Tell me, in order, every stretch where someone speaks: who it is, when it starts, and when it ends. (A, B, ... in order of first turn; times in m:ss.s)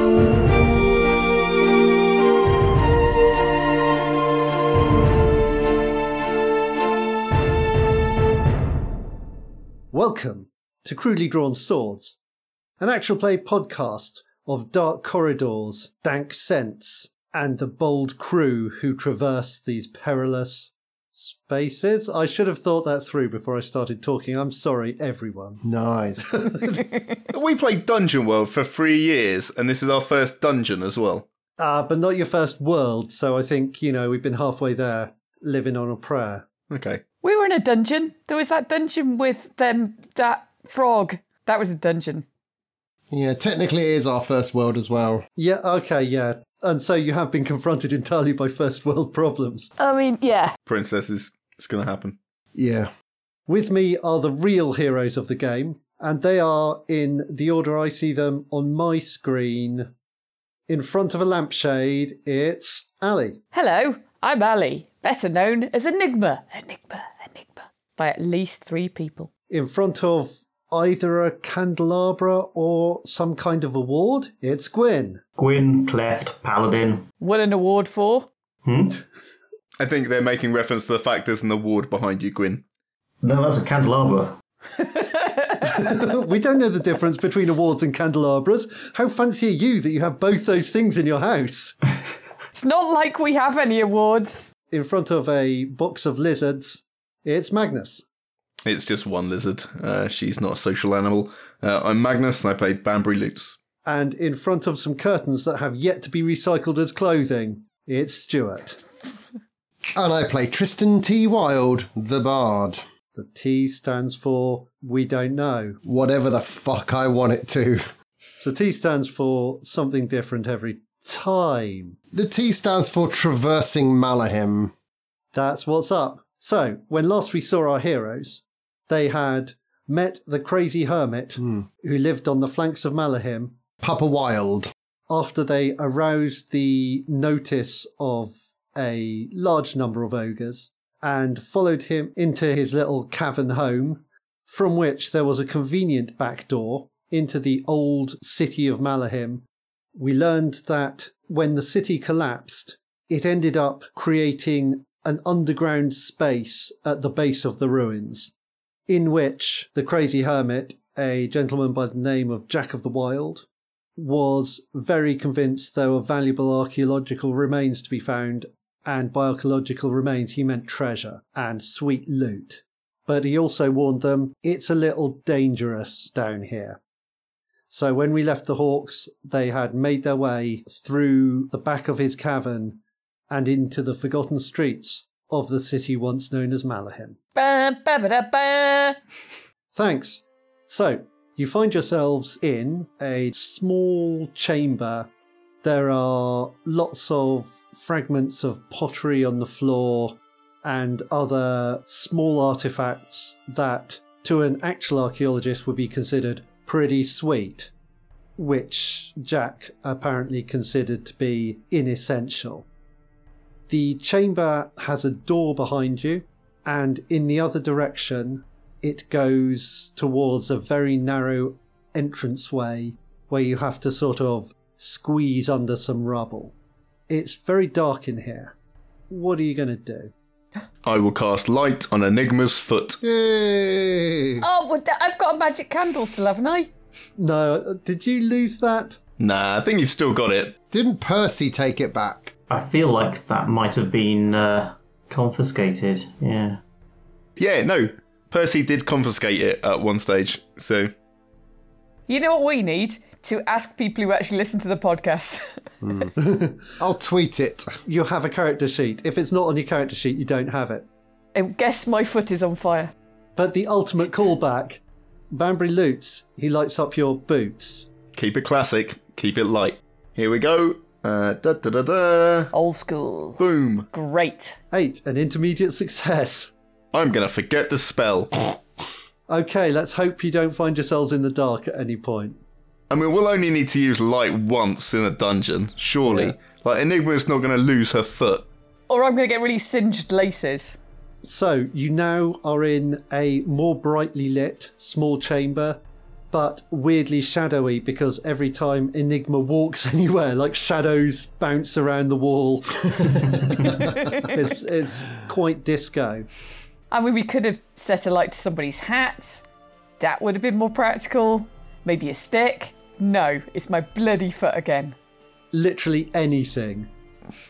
0:09.9-0:12.2 A
0:12.8-0:25.6 A
0:25.6-0:26.5 B
0:26.2-0:26.9 A
0:27.3-0:31.2 C
0:31.6-0:36.5 A
0:36.7-0:37.0 C
0:37.2-0:42.2 D
0:43.1-0:45.2 B
0:45.4-0:49.7 A
0:49.8-0:50.5 D
0:50.7-0:52.2 C
0:52.5-0:52.9 B
0:53.5-0:59.9 A
1:00.7-1:03.4 A
1:03.5-1:09.3 D
1:09.5-1:15.2 A
1:15.4-1:17.1 E
1:17.2-1:18.3 D
1:18.6-1:19.0 E
1:19.8-1:22.6 C
1:23.2-1:24.3 E
1:24.8-1:25.9 D
1:25.6-1:31.8 A
1:32.5-1:34.5 D
1:34.7-1:38.0 A
1:38.6-1:43.6 C
1:43.8-1:48.8 A
1:49.9-1:52.8 B
1:53.1-1:55.8 A
1:55.8-1:57.8 B
1:58.4-2:02.0 A
2:02.1-2:04.7 B
2:05.3-2:13.6 A
2:13.8-2:14.7 B
2:15.1-2:29.4 A
2:29.9-2:38.3 A
2:38.9-2:43.4 A
2:44.0-2:56.8 A
2:57.7-3:02.8 A
3:03.3-3:07.2 A
3:07.4-3:09.0 D
3:09.7-3:15.1 A
3:15.6-3:27.7 A
3:28.4-3:32.6 A
3:33.7-3:46.5 A
3:47.1-3:48.5 A
3:49.1-3:50.1 A
3:50.8-3:53.0 C
3:53.0-3:54.4 B
3:54.4-3:56.7 D
3:57.2-3:59.0 A
3:59.2-4:00.6 C
4:00.7-4:02.3 B
4:02.5-4:06.6 E
4:07.4-4:10.9 C
4:12.1-4:15.6 D
4:15.8-4:17.7 B
4:17.8-4:20.8 A
4:21.3-4:22.9 D
4:23.4-4:24.8 A
4:25.3-4:27.9 A
4:28.1-4:32.5 C
4:32.5-4:33.4 D
4:33.4-4:33.9 C
4:33.9-4:34.6 D
4:34.7-4:36.5 A
4:36.9-4:38.6 C
4:39.3-4:42.4 A
4:42.9-4:48.5 C
4:48.9-4:50.8 D
4:51.2-4:55.8 A
4:56.3-5:06.3 A
5:03.8-5:04.3 D
5:06.9-5:09.4 D
5:10.0-5:14.9 D
5:15.5-5:16.9 A